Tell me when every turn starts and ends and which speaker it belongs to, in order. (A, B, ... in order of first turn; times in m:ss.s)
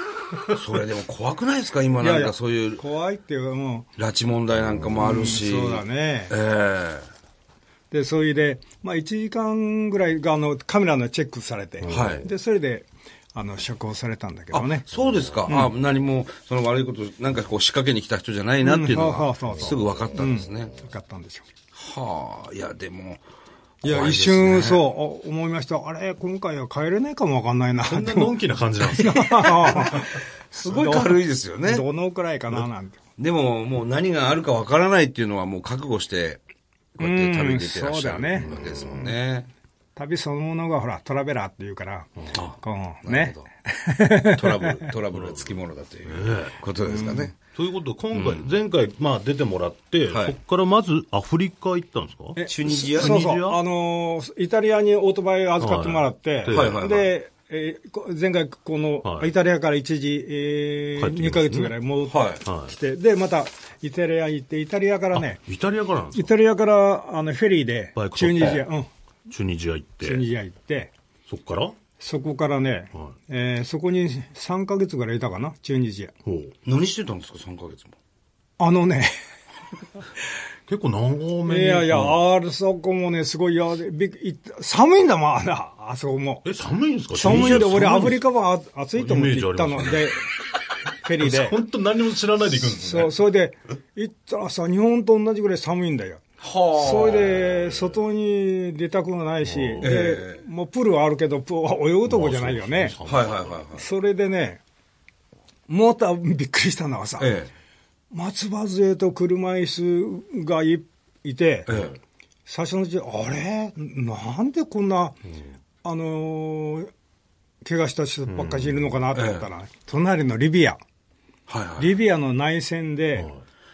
0:00.5-0:02.8 A
0:02.0-0:03.9 B
0:04.0-0:07.1 A
0:05.0-0:06.3 B
0:07.9-0:14.9 B
0:11.8-0:12.2 C
0:11.9-0:12.3 A
0:14.5-0:20.8 A
0:15.0-0:15.4 C
0:15.5-0:15.7 B
0:18.6-0:21.5 B
0:21.8-0:23.2 A
0:23.8-0:24.9 A
0:23.8-0:33.0 B
0:27.8-0:29.5 C
0:29.4-0:31.9 A
0:33.2-0:36.4 A
0:37.0-0:39.5 A
0:37.0-0:38.5 B
0:38.4-0:39.1 C
0:40.0-0:44.9 B
0:42.3-0:43.5 A
0:44.3-0:47.4 A
0:45.1-0:45.5 C
0:46.0-0:46.5 C
0:46.9-0:47.3 B
0:47.4-0:53.6 C
0:48.1-0:48.5 A
0:50.1-0:50.4 A
0:52.4-1:05.4 B
0:52.5-0:53.2 A
0:55.6-0:56.8 C
0:56.5-0:57.1 A
0:59.0-0:59.3 C
1:01.0-1:01.8 C
1:02.1-1:02.4 A
1:02.4-1:02.8 C
1:05.1-1:06.3 C
1:06.1-1:08.9 B
1:08.0-1:08.6 C
1:09.3-1:10.2 C
1:10.0-1:10.9 B
1:11.3-1:11.8 C
1:12.0-1:16.1 B
1:16.3-1:16.5 C
1:16.6-1:17.9 A
1:18.6-1:19.1 B
1:20.7-1:22.2 C
1:21.4-1:26.5 B
1:26.4-1:28.2 C
1:27.1-1:30.3 B
1:27.2-1:28.2 A
1:29.0-1:30.2 C
1:31.0-1:31.6 B
1:31.2-1:33.2 C
1:32.6-1:43.0 B
1:36.4-1:37.5 A
1:37.5-1:37.9 C
1:39.4-1:40.1 C
1:39.8-1:40.4 A
1:42.1-1:43.6 C
1:43.0-1:43.9 A
1:43.8-1:44.6 B
1:45.7-1:47.4 B
1:47.2-1:47.5 A
1:48.1-1:51.7 B
1:51.7-1:52.0 A
1:52.5-1:55.2 B
1:55.8-1:56.9 B
1:57.6-2:00.8 B
1:58.3-1:59.0 C
1:59.1-1:59.5 A
2:01.5-2:02.0 A
2:01.8-2:03.3 B